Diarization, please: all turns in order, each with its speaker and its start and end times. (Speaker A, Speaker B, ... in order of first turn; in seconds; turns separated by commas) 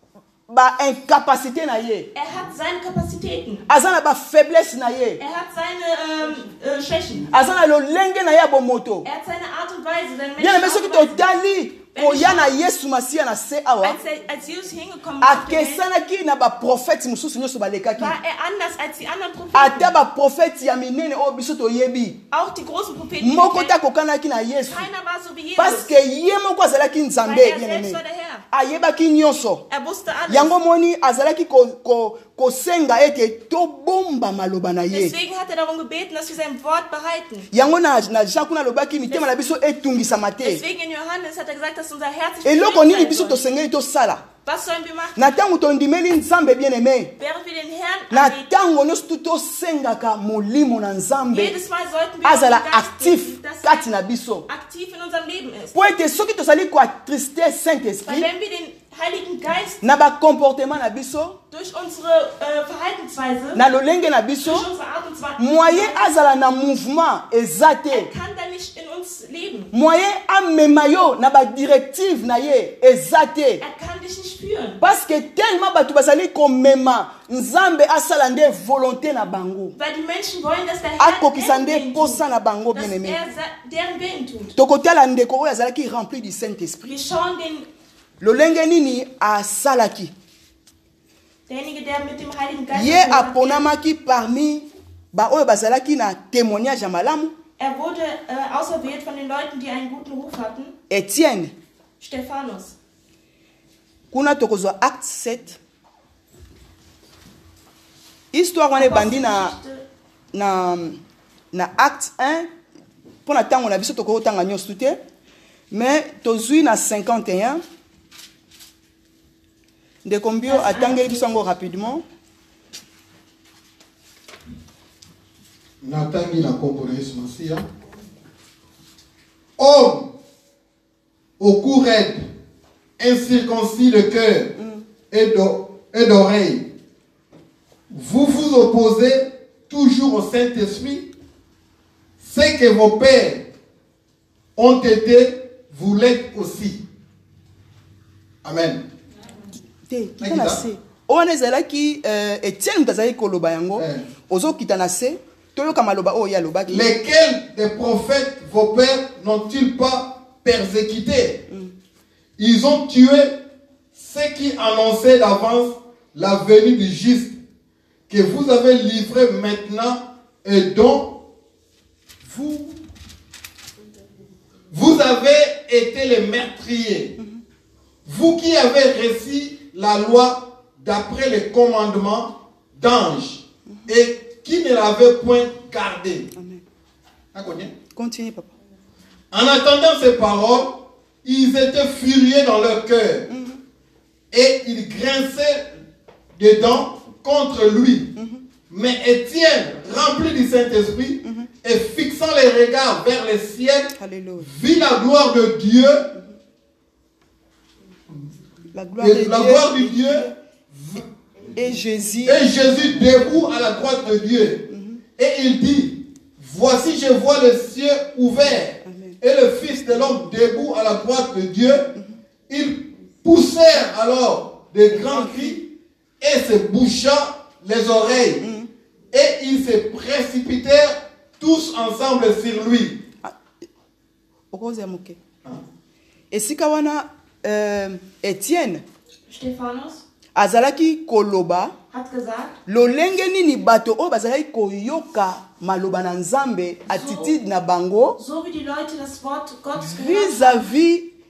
Speaker A: 0.5-2.1, Speaker B: 2.1-3.6, Speaker A: 3.7-5.2, Speaker B: 5.2-7.3, Speaker A: 7.3-9.1, Speaker B: 9.0-11.3, Speaker A: 10.4-14.0, Speaker B: 11.9-12.5, Speaker B: 13.8-15.8, Speaker A: 15.2-18.2, Speaker B: 18.0-19.9, Speaker A: 19.5-22.2, Speaker B: 22.3-23.8, Speaker A: 23.2-24.9, Speaker B: 24.7-25.9, Speaker A: 25.6-28.0, Speaker B: 27.2-28.4, Speaker A: 28.5-29.6, Speaker B: 29.7-30.5, Speaker A: 30.3-35.1, Speaker B: 34.9-37.5, Speaker A: 37.5-40.6, Speaker B: 40.4-43.4, Speaker A: 42.4-44.2, Speaker B: 44.4-45.3, Speaker A: 45.1-47.1, Speaker B: 47.2-48.5, Speaker A: 48.1-51.6, Speaker B: 51.3-53.9, Speaker A: 52.2-54.5, Speaker B: 54.5-55.8, Speaker A: 55.7-58.3, Speaker B: 58.0-59.8, Speaker A: 59.8-61.4, Speaker B: 61.5-63.6, Speaker A: 63.5-64.7, Speaker B: 64.4-66.2, Speaker A: 65.4-68.1, Speaker B: 67.9-69.7, Speaker A: 69.7-73.6, Speaker B: 73.6-74.8, Speaker A: 74.8-79.7, Speaker B: 79.7-84.5, Speaker A: 81.0-83.2, Speaker A: 84.5-86.9, Speaker B: 86.8-87.7, Speaker A: 88.2-90.1, Speaker B: 91.5-93.7, Speaker A: 92.7-97.3, Speaker B: 97.6-100.7, Speaker A: 100.9-101.5, Speaker B: 102.0-102.7, Speaker A: 104.1-105.6, Speaker A: 108.3-109.5, Speaker B: 108.7-109.8, Speaker A: 110.3-111.0, Speaker A: 111.5-112.5, Speaker A: 113.2-115.0, Speaker A: 115.7-117.6, Speaker A: 120.0-122.0, Speaker B: 120.4-121.3, Speaker C: 125.8-127.7, Speaker C: 129.6-130.1, Speaker C: 131.4-132.2, Speaker C: 133.0-134.6, Speaker A: 134.6-134.8, Speaker C: 135.1-136.7, Speaker C: 137.9-141.1, Speaker C: 142.2-143.5, Speaker C: 144.6-146.8, Speaker C: 148.4-148.8, Speaker A: 149.9-156.9, Speaker C: 150.2-150.6, Speaker C: 153.8-154.1, Speaker C: 156.7-161.4, Speaker C: 162.4-163.3, Speaker C: 163.9-167.4, Speaker C: 168.1-171.2, Speaker C: 172.2-172.8, Speaker C: 174.7-177.2, Speaker C: 178.0-186.3, Speaker A: 186.3-186.6, Speaker C: 187.3-187.7, Speaker A: 187.9-188.5, Speaker C: 189.3-193.3, Speaker A: 193.3-193.6, Speaker C: 194.3-195.7, Speaker C: 196.3-198.1, Speaker A: 198.2-198.4, Speaker C: 198.7-206.1, Speaker A: 201.2-201.5, Speaker A: 204.0-204.5, Speaker A: 208.7-210.3, Speaker C: 209.0-211.0, Speaker A: 211.6-212.6, Speaker C: 212.2-221.9, Speaker A: 214.7-215.0, Speaker A: 218.8-219.2, Speaker C: 222.5-228.4, Speaker A: 224.9-225.6, Speaker A: 228.4-228.7, Speaker C: 229.1-233.0, Speaker A: 234.5-235.2, Speaker A: 236.3-238.8, Speaker B: 239.3-240.0, Speaker A: 240.3-241.7, Speaker B: 241.9-242.5, Speaker A: 242.7-248.2, Speaker B: 246.9-247.3, Speaker B: 248.2-250.7, Speaker A: 249.8-251.1